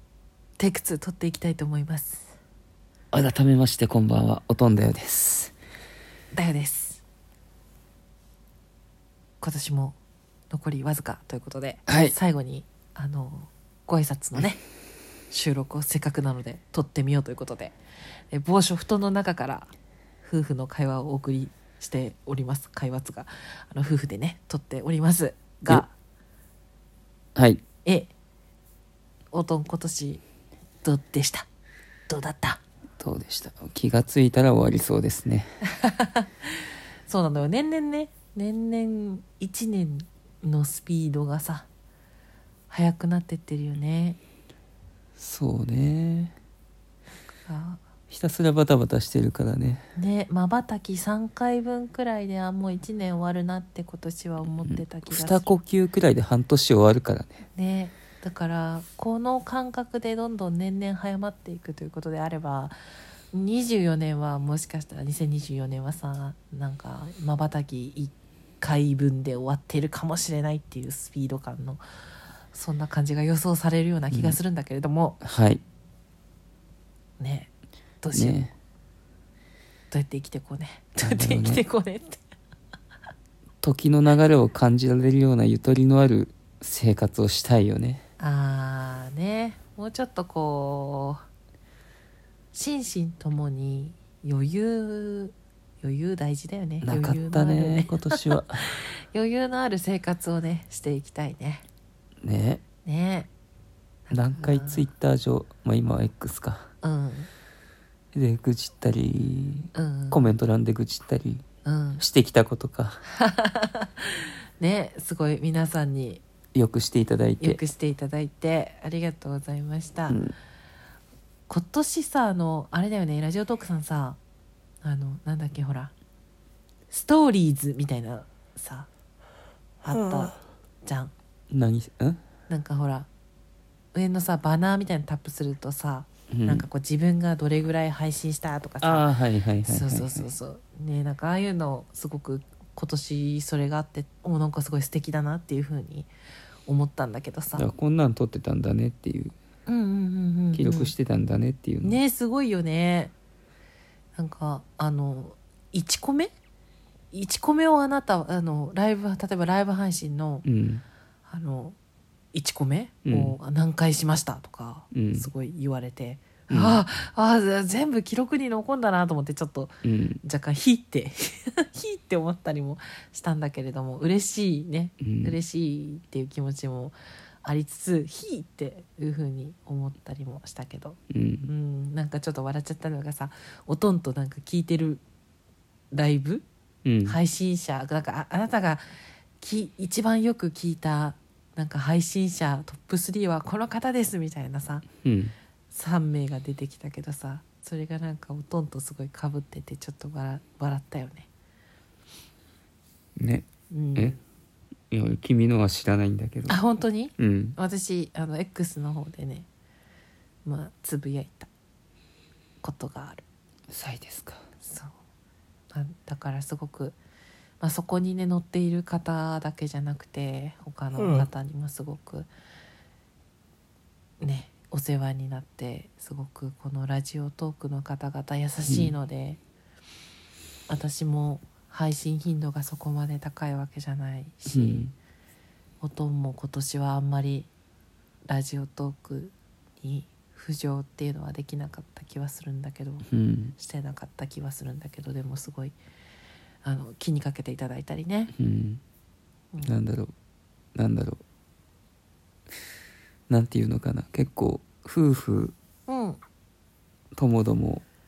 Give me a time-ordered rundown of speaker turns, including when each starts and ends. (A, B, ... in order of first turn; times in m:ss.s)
0:00.6-0:02.4 A
0:03.1-0:05.6 B
0:06.3-0:07.0 A
0:09.4-0:10.0 A
0:10.5-0:14.6 A
0:11.9-0:12.1 B
0:15.3-0:17.8 A
0:18.3-0:19.7 A
0:20.2-0:25.9 A
0:27.4-0:27.6 B
0:27.8-0:28.1 A
0:29.3-0:30.2 A
0:30.8-0:31.5 A
0:32.1-0:32.6 A
0:33.0-0:35.6 B
0:35.7-0:41.7 A
0:42.7-0:44.2 A
0:45.2-0:46.4 B
0:47.3-0:47.8 A
0:48.1-0:49.9 B
0:50.0-0:55.5 A
0:54.7-0:57.4 B
0:57.5-1:02.8 A
1:03.3-1:11.8 A
1:12.5-1:15.2 A
1:14.1-1:14.4 B
1:15.2-1:15.6 B
1:17.2-1:18.4 A
1:18.1-1:18.5 B
1:19.9-1:22.2 A
1:21.0-1:21.6 B
1:23.6-1:28.0 B
1:28.2-1:31.2 A
1:32.5-1:41.6 A
1:36.8-1:38.7 B
1:42.2-1:42.6 B
1:42.8-1:43.3 A
1:44.1-1:44.9 A
1:44.1-1:46.7 B
1:46.8-1:47.3 A
1:48.1-1:51.4 B
1:49.8-1:50.2 A
1:51.6-1:52.0 A
1:52.0-1:53.0 B
1:53.1-1:56.2 A
1:56.6-1:57.6 B
1:57.4-2:00.2 A
2:00.1-2:00.3 B
2:01.5-2:04.2 A
2:04.8-2:05.9 A
2:06.9-2:08.9 A
2:09.8-2:11.1 A
2:11.5-2:12.2 B
2:12.5-2:13.1 A
2:13.9-2:19.1 A
2:16.3-2:16.7 B
2:18.8-2:20.3 B
2:19.6-2:26.1 A
2:26.7-2:27.7 A
2:27.6-2:29.4 B
2:29.7-2:30.9 A
2:30.5-2:32.0 B
2:31.8-2:33.1 A
2:34.2-2:36.3 A
2:37.1-2:40.4 A
2:40.4-2:40.8 B
2:41.3-2:41.8 A
2:42.3-3:05.0 A
2:43.0-2:43.4 B
2:44.9-2:45.3 B
2:46.5-2:46.8 B
2:49.8-2:50.2 B
2:55.0-2:55.4 B
3:01.1-3:01.5 B
3:05.9-3:06.4 A
3:06.8-3:07.2 B
3:07.0-3:08.8 A
3:09.4-3:14.9 A
3:15.0-3:15.3 B
3:15.7-3:21.3 A
3:23.2-3:24.2 B
3:23.7-3:24.2 A
3:24.9-3:26.6 B
3:26.5-3:29.5 A
3:27.2-3:27.6 B
3:30.4-3:31.5 A
3:32.6-3:33.2 A
3:33.7-3:34.4 B
3:34.6-3:34.9 A
3:35.7-3:37.0 A
3:37.6-3:42.3 A
3:44.2-3:49.4 A
3:48.7-3:49.0 B
3:50.7-3:54.9 A
3:54.5-3:54.9 B
3:55.8-3:57.5 A
3:58.3-4:05.8 A
4:03.1-4:03.6 B
4:06.6-4:08.3 A
4:08.3-4:08.8 B
4:09.6-4:10.1 B
4:10.8-4:11.2 B
4:13.3-4:15.6 B
4:15.9-4:16.2 A
4:17.2-4:17.8 B